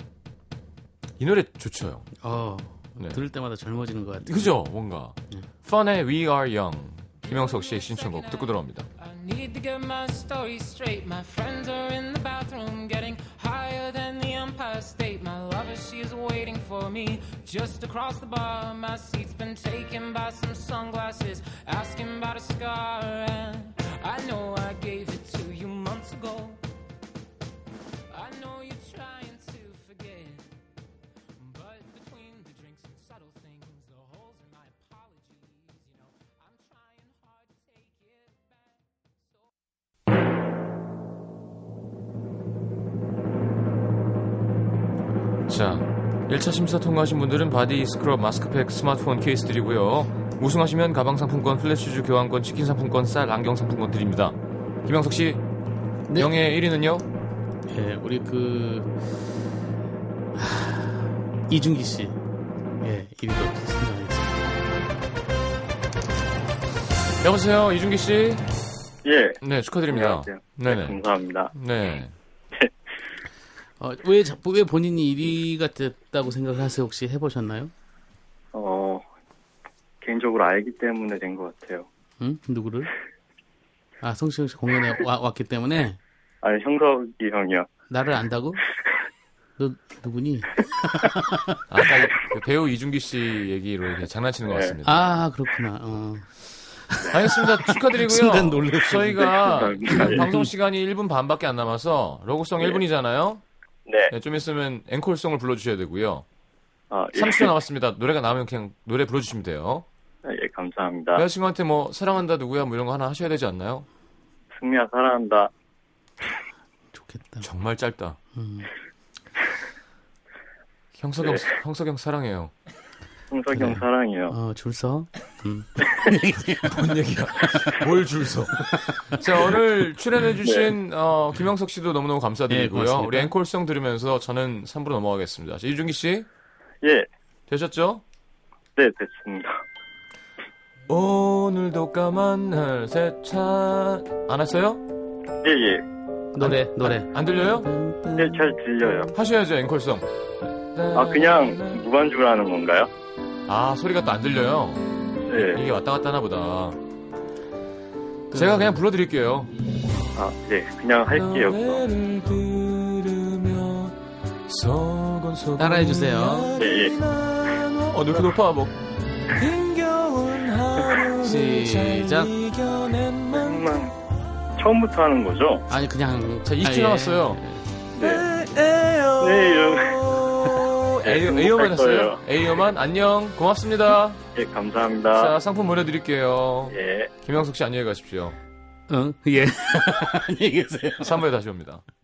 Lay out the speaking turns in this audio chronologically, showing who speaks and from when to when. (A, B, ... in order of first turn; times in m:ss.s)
0:01.2-0:02.1 A
0:02.2-0:04.6 B
0:03.0-0:03.2 A
0:04.2-0:08.9 A
0:07.2-0:26.6 C
0:28.1-0:30.6 C
0:31.3-0:39.6 C
0:45.5-0:55.4 A
0:56.1-0:57.0 A
0:57.7-0:59.0 B
1:00.4-1:02.2 B
1:02.8-1:04.4 B
1:07.2-1:08.4 A
1:09.0-1:11.5 D
1:09.4-1:12.1 A
1:13.8-1:17.7 B
1:18.5-1:19.0 D
1:20.0-1:21.9 D
1:22.2-1:22.9 B
1:24.0-1:26.0 B
1:26.4-1:27.7 D
1:27.9-1:28.6 B
1:29.6-1:31.6 B
1:31.7-1:35.2 A
1:34.4-1:34.8 D
1:34.8-1:36.3 B
1:36.8-1:40.5 B
1:37.1-1:43.4 A
1:39.4-1:40.3 D
1:43.9-1:44.1 D
1:44.1-1:46.2 A
1:46.9-1:47.5 D
1:47.1-1:49.9 A
1:50.2-1:51.2 D
1:51.1-1:53.9 A
1:54.5-1:55.5 D
1:56.9-1:57.5 B
1:57.4-1:58.2 A
1:58.4-1:58.7 B
2:01.0-2:02.5 A
2:01.2-2:01.5 D
2:03.3-2:04.4 D
2:03.6-2:06.7 B
2:06.6-2:16.3 A
2:10.4-2:10.8 D
2:12.5-2:13.3 B
2:16.8-2:17.1 D
2:17.5-2:18.0 A
2:18.8-2:19.6 D
2:20.9-2:24.8 A
2:25.4-2:25.8 D
2:26.4-2:29.0 B
2:26.4-2:27.7 A
2:28.2-2:29.1 D
2:29.1-2:31.8 A
2:30.9-2:32.9 D
2:33.5-2:36.8 A
2:35.3-2:35.6 D
2:38.3-2:38.8 B
2:38.3-2:39.5 A
2:40.1-2:41.8 D
2:41.1-2:48.8 A
2:45.6-2:46.5 B
2:46.6-2:47.0 D
2:49.3-2:53.7 A
2:51.2-2:52.3 B
2:53.3-2:53.9 D
2:54.6-2:55.7 D
2:55.7-2:57.6 B
2:56.4-2:57.4 A
2:57.9-3:04.2 A
2:58.0-2:58.3 D
2:59.2-3:00.0 D
3:01.0-3:02.2 D
3:04.3-3:05.3 D
3:05.1-3:08.4 A
3:06.7-3:07.1 D
3:08.9-3:11.2 B
3:11.0-3:11.8 A